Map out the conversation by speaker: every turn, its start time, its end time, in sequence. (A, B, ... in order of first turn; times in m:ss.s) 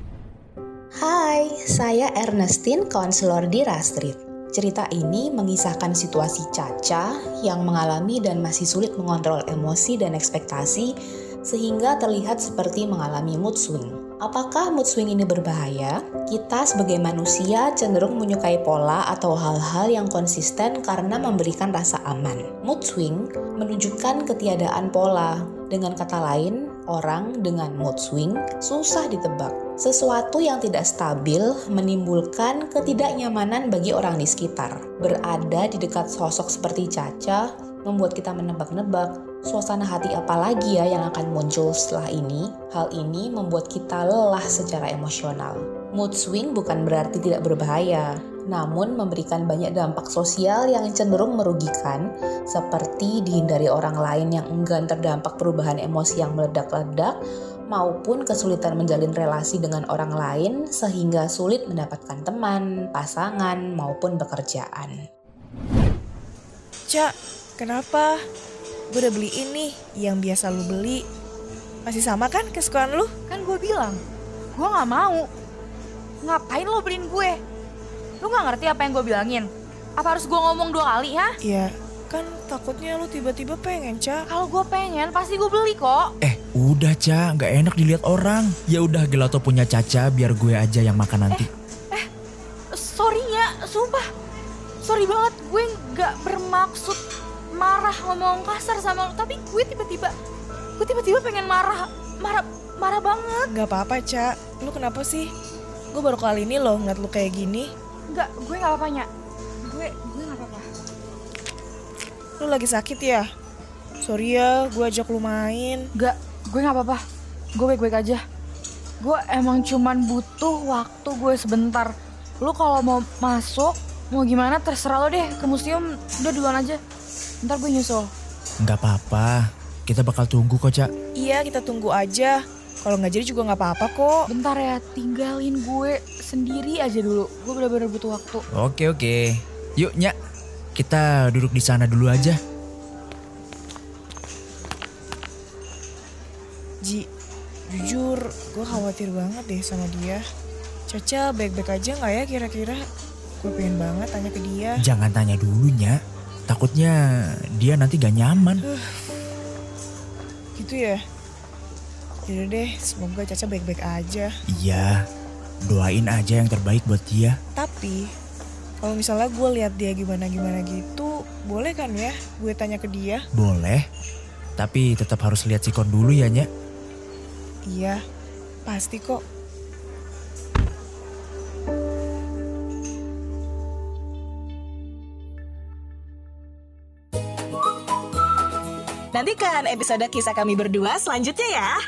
0:01.0-0:10.9 A
0:11.5-0:57.2 A
0:57.7-1:05.0 A
1:06.9-1:08.2 B
1:08.9-1:11.0 B
1:11.8-1:13.1 B
1:13.3-1:14.0 C
1:14.5-1:15.3 C
1:16.2-1:17.4 C
1:18.2-1:21.3 C
1:21.4-1:24.2 B
1:24.3-1:26.1 C
1:26.2-1:31.4 D
1:31.3-1:32.1 C
1:32.7-1:34.1 C
1:34.8-1:37.0 C
1:37.5-1:40.1 C
1:40.8-1:43.5 C
1:43.5-1:45.3 B
1:45.9-1:47.7 B
1:48.1-1:49.1 C
1:49.6-1:50.7 C
1:52.4-1:53.2 B
1:54.0-1:55.8 B
1:56.0-1:57.0 C
1:57.6-1:58.2 C
1:59.0-2:06.8 C
2:07.4-2:08.1 C
2:08.6-2:10.9 D
2:11.2-2:14.2 B
2:14.3-2:18.4 C
2:18.6-2:20.1 D
2:20.8-2:22.4 D
2:27.7-2:30.2 B
2:30.9-2:32.8 B
2:33.4-2:34.8 B
2:34.8-2:36.0 D
2:36.5-2:37.0 D
2:37.6-2:38.6 D
2:38.7-2:39.2 B
2:40.6-2:41.0 B
2:42.3-2:44.3 B
2:44.5-2:45.0 D
2:45.6-2:47.4 D
2:47.6-2:48.1 B
2:48.8-2:53.2 B
2:53.4-2:53.8 D
2:54.6-2:56.4 D
2:57.7-2:58.0 B
2:58.7-2:59.2 B
3:09.1-3:11.8 E